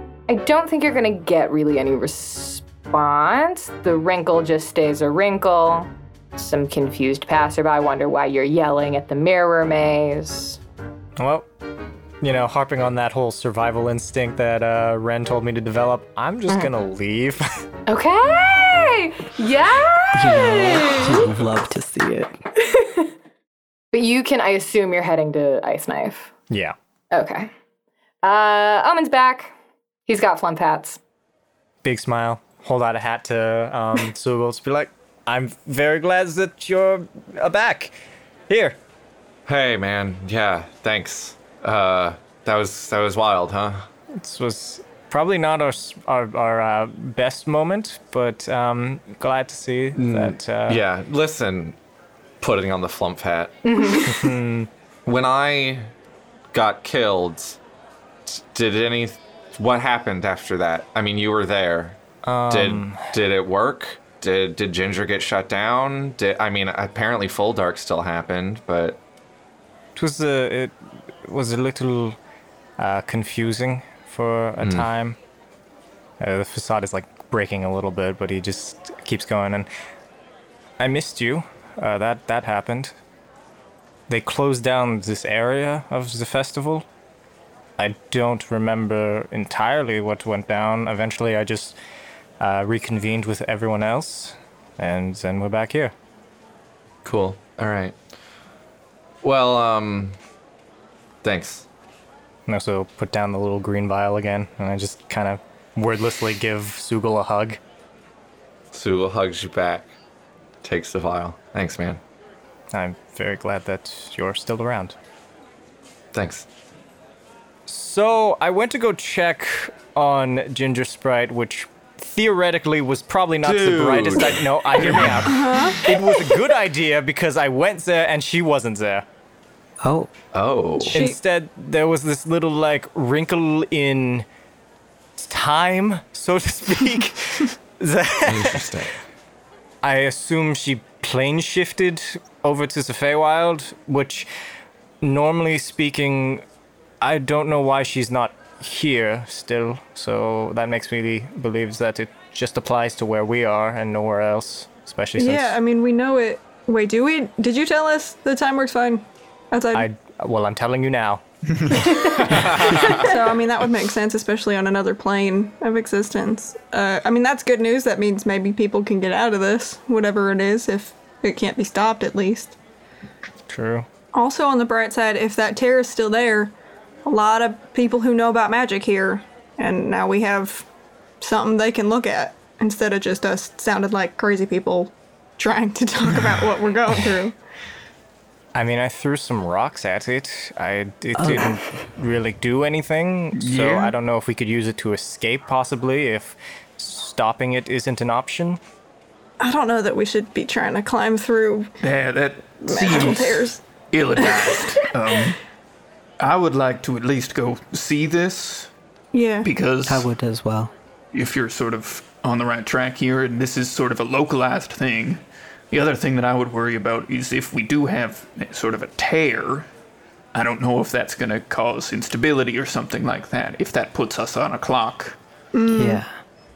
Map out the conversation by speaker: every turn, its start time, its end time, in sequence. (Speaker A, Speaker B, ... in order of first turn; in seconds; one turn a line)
Speaker A: 0.3-10.6
Speaker B: 11.2-11.5
Speaker B: 12.2-17.6
Speaker A: 17.9-21.3
Speaker C: 20.1-22.3
Speaker A: 22.6-23.1
Speaker A: 23.9-26.3
Speaker B: 26.5-26.8
Speaker A: 27.1-27.5
Speaker A: 28.2-29.5
Speaker A: 30.1-31.0
Speaker B: 31.8-38.0
Speaker B: 38.5-38.8
Speaker D: 39.5-43.9
Speaker B: 44.1-50.8
Speaker D: 50.0-51.8
Speaker D: 52.4-53.6
Speaker A: 53.6-54.3
Speaker B: 54.0-54.7
Speaker D: 55.1-55.9
Speaker D: 56.5-57.6
Speaker D: 58.3-69.0
Speaker B: 62.2-63.1
Speaker B: 70.0-72.2
Speaker B: 72.8-75.2
Speaker D: 74.6-74.9
Speaker B: 76.2-79.7
Speaker B: 80.8-82.9
Speaker B: 84.1-86.9
Speaker B: 87.8-91.8
Speaker B: 92.4-95.9
Speaker D: 97.0-98.0
Speaker D: 99.2-100.2
Speaker D: 101.2-101.7
Speaker B: 102.5-107.6
Speaker D: 108.7-109.9
Speaker D: 110.6-112.0
Speaker B: 112.7-115.0
Speaker D: 116.1-116.5
Speaker B: 117.7-129.1
Speaker D: 123.4-125.3
Speaker E: 125.3-125.8
Speaker C: 129.8-130.1
Speaker D: 130.3-131.0
Speaker E: 130.9-131.2
Speaker B: 130.9-134.2
Speaker B: 135.2-138.8
Speaker D: 138.3-138.9
Speaker B: 139.8-144.3
Speaker B: 145.0-146.4
Speaker B: 147.0-155.6
Speaker E: 155.2-159.9
Speaker B: 159.7-163.0
Speaker E: 162.6-172.6
Speaker B: 173.5-173.9
Speaker E: 174.1-176.5
Speaker E: 177.1-180.7
Speaker E: 181.2-187.4
Speaker B: 188.6-198.6
Speaker C: 191.2-191.5
Speaker F: 193.3-193.9
Speaker E: 199.4-201.7
Speaker F: 201.8-205.4
Speaker E: 202.6-203.6
Speaker E: 204.2-204.7
Speaker F: 206.2-208.7
Speaker E: 209.1-209.5
Speaker F: 209.4-210.1
Speaker C: 209.8-210.7
Speaker F: 211.1-219.7
Speaker F: 220.3-225.2
Speaker E: 225.5-226.0
Speaker C: 225.7-226.1